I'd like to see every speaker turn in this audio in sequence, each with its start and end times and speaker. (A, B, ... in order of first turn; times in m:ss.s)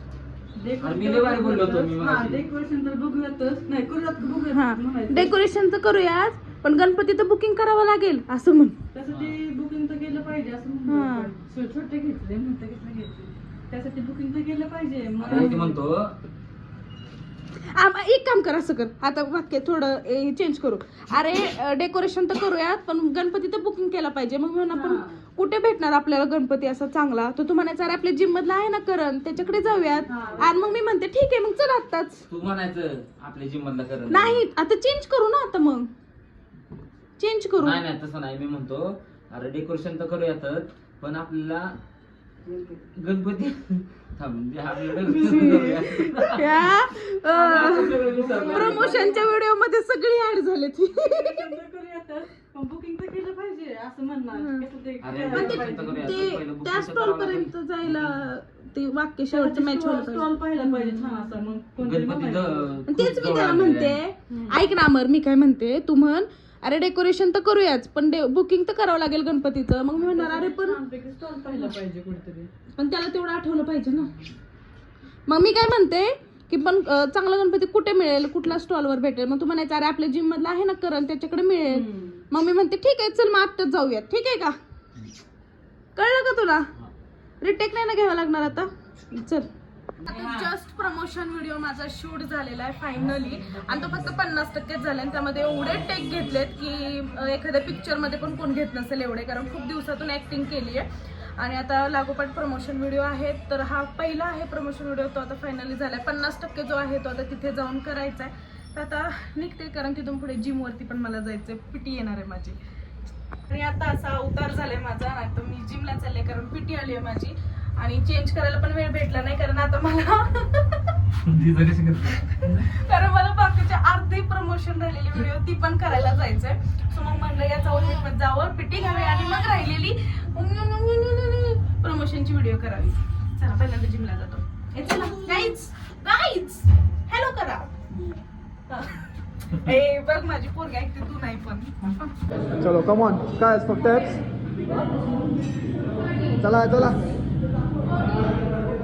0:00.6-0:05.4 A
0:00.8-0:02.5 B
0:04.5-0:08.8 C
0:08.9-0:15.8 A
0:09.1-0:09.4 B
0:10.9-0:11.3 C
0:15.2-0:16.2 B
0:17.7-0:32.2 C
0:24.7-0:25.1 A
0:30.1-0:30.5 A
0:32.3-0:34.4 B
0:34.1-0:35.9 C
0:37.2-0:37.8 C
0:37.6-0:41.7 B
0:42.5-0:42.8 A
0:43.0-0:46.7 B
0:45.1-0:45.9 A
0:45.1-0:51.5 C
0:47.3-0:49.3 A
0:47.5-0:49.0 B
0:51.0-0:56.2 A
0:54.3-0:54.7 C
0:55.0-0:58.2 B
0:55.3-1:01.3 C
0:59.3-1:02.7 A
1:01.8-1:04.0 B
1:02.9-1:10.8 C
1:04.3-1:04.6 A
1:09.9-1:12.5 A
1:12.8-1:14.1 C
1:15.3-1:24.6 C
1:21.7-1:22.2 A
1:26.0-1:26.7 C
1:27.4-1:29.5 C
1:30.0-1:40.8 C
1:30.1-1:30.5 A
1:41.4-1:52.6 C
1:53.5-2:00.8 C
2:01.2-2:02.7 B
2:02.2-2:17.7 C
2:18.7-2:22.1 C
2:22.6-2:24.2 D
2:26.0-2:26.4 C
2:26.4-2:27.0 D
2:27.9-2:28.4 C